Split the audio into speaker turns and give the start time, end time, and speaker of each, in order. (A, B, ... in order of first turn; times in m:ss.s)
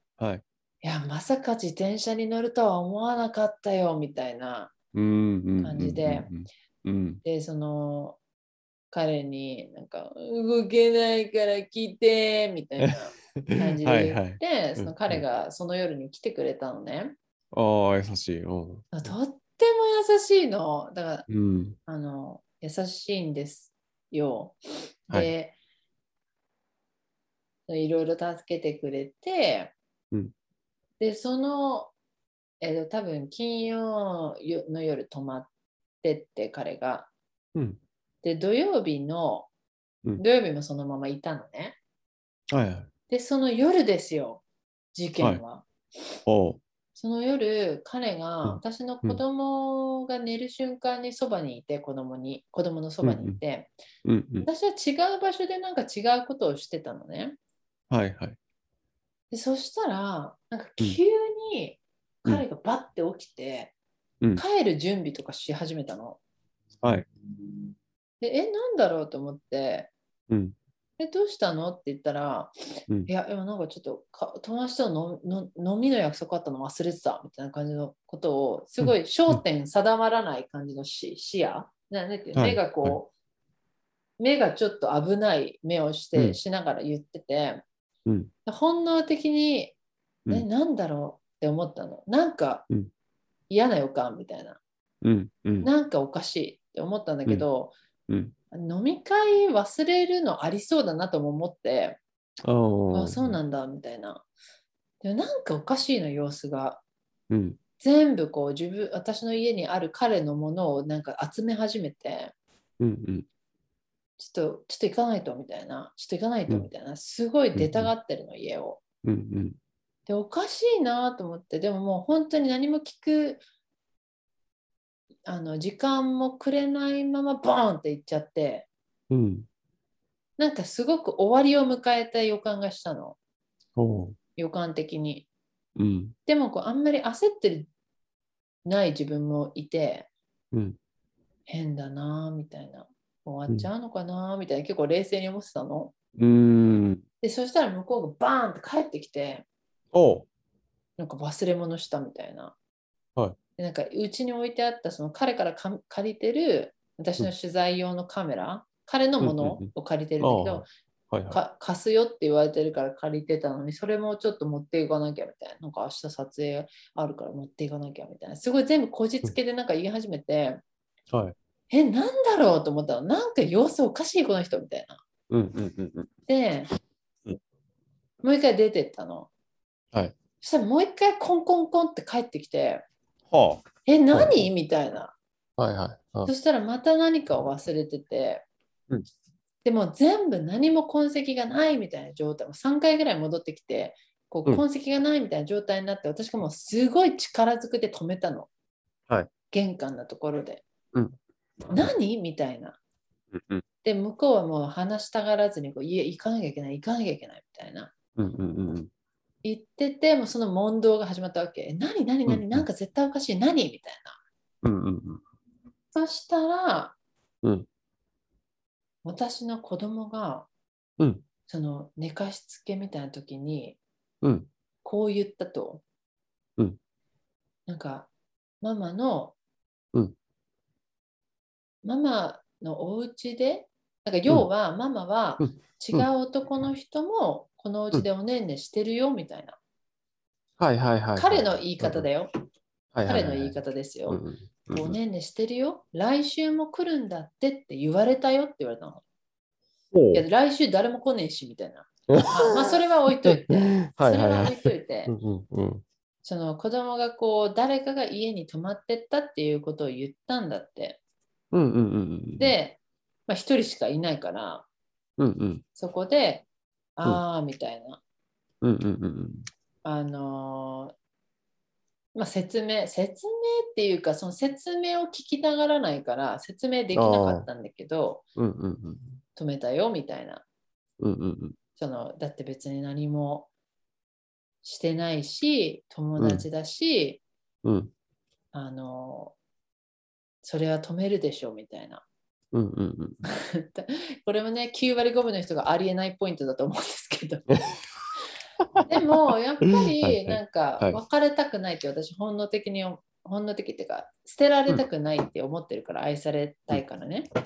0:00.2-0:00.4 A
0:00.8-0:04.7 B
0:04.9-0:07.2 A
0:05.6-0:06.3 B
0:07.2-0:08.2 B
0:08.9-0:17.2 B
0:12.8-0:15.2 A
0:17.5-0:19.2 A
0:18.9-0:21.3 B
0:21.3-0:21.8 A
0:21.9-0:25.5 B
0:27.7-0:29.7 B
0:31.0-0:31.9 B
0:32.6-0:35.5 B
0:36.0-0:37.1 B
0:37.5-0:37.8 A
0:38.2-0:39.5 B
0:40.2-0:41.8 B
0:42.5-0:42.9 A
0:43.1-0:45.6 B
0:46.2-0:46.6 A
0:47.0-0:53.7 B
0:48.4-0:49.2 A
0:53.0-0:53.4 A
0:54.0-0:54.5 A
0:54.4-0:57.4 B
0:57.9-0:58.4 A
0:59.3-1:03.7 B
1:04.4-1:06.2 B
1:08.2-1:09.9 B
1:10.3-1:10.6 A
1:11.0-1:12.5 B
1:13.0-1:23.1 B
1:18.8-1:19.4 A
1:22.4-1:23.0 A
1:24.2-1:27.6 B
1:28.0-1:28.3 A
1:28.4-1:29.7 B
1:30.3-1:32.6 B
1:33.5-1:34.6 B
1:35.0-1:35.7 A
1:35.6-1:37.7 B
1:38.1-1:38.3 A
1:38.5-1:42.0 B
1:42.4-1:43.4 A
1:42.9-1:44.2 B
1:45.0-1:46.8 B
1:47.3-1:47.6 A
1:47.8-1:52.3 B
1:52.8-1:53.3 A
1:54.2-1:58.8 B
1:57.5-1:57.9 A
1:59.0-1:59.6 A
2:00.1-2:03.4 B
2:05.2-2:08.7 B
2:09.1-2:09.5 A
2:10.4-2:13.2 B
2:13.8-2:14.2 A
2:14.4-2:15.3 B
2:15.8-2:16.1 A
2:16.2-2:17.7 B
2:18.6-2:20.1 B
2:20.5-2:20.8 A
2:21.5-2:25.9 B
2:26.2-2:27.0 A
2:27.2-2:29.4 B
2:29.9-2:30.3 A
2:31.0-2:32.6 B
2:33.6-2:40.7 B
2:39.2-2:41.4 A
2:41.3-2:50.6 B
2:51.7-2:55.0 B
2:55.3-2:56.1 A
2:56.3-2:56.7 B
2:58.2-2:59.3 B
3:00.4-3:02.8 B
3:03.3-3:04.5 A
3:03.8-3:05.1 B
3:05.6-3:06.3 A
3:06.2-3:08.4 B
3:09.6-3:18.5 B
3:19.5-3:20.6 B
3:21.7-3:21.9 A
3:21.7-3:22.8 B
3:23.3-3:23.6 A
3:23.8-3:27.9 B
3:28.2-3:28.9 A
3:29.4-3:34.2 B
3:32.3-3:32.6 A
3:34.6-3:35.2 A
3:35.9-3:37.0 B
3:39.0-3:40.5 B
3:41.0-3:41.2 A
3:41.5-3:43.8 B
3:44.2-3:44.5 A
3:44.8-3:45.8 B
3:47.7-3:48.1 B
3:48.6-3:49.3 B
3:51.8-3:59.6 B
3:55.4-3:56.1 A
4:00.6-4:02.1 A
4:01.2-4:02.3 B
4:02.9-4:03.6 A
4:03.0-4:04.2 B
4:04.1-4:05.0 A
4:04.7-4:09.0 B
4:09.9-4:10.2 A
4:10.1-4:15.1 B
4:12.1-4:15.8 A
4:16.2-4:21.0 B
4:21.5-4:22.5 A
4:22.4-4:24.7 B
4:25.2-4:25.6 A
4:25.8-4:26.4 B
4:27.0-4:28.0 B
4:28.6-4:29.4 A
4:29.8-4:30.9 B
4:32.1-4:38.2 B
4:36.9-4:37.5 A
4:38.4-4:39.2 A
4:39.4-4:40.4 B
4:41.0-4:41.6 A
4:41.8-4:43.5 B
4:44.6-4:47.2 B
4:46.2-4:46.4 A
4:47.6-4:47.9 A
4:48.5-4:49.4 B
4:50.4-4:52.0 B
4:52.5-4:53.2 A
4:53.2-4:57.4 B
4:58.6-4:58.9 A
4:58.9-5:07.3 B
5:00.0-5:01.0 A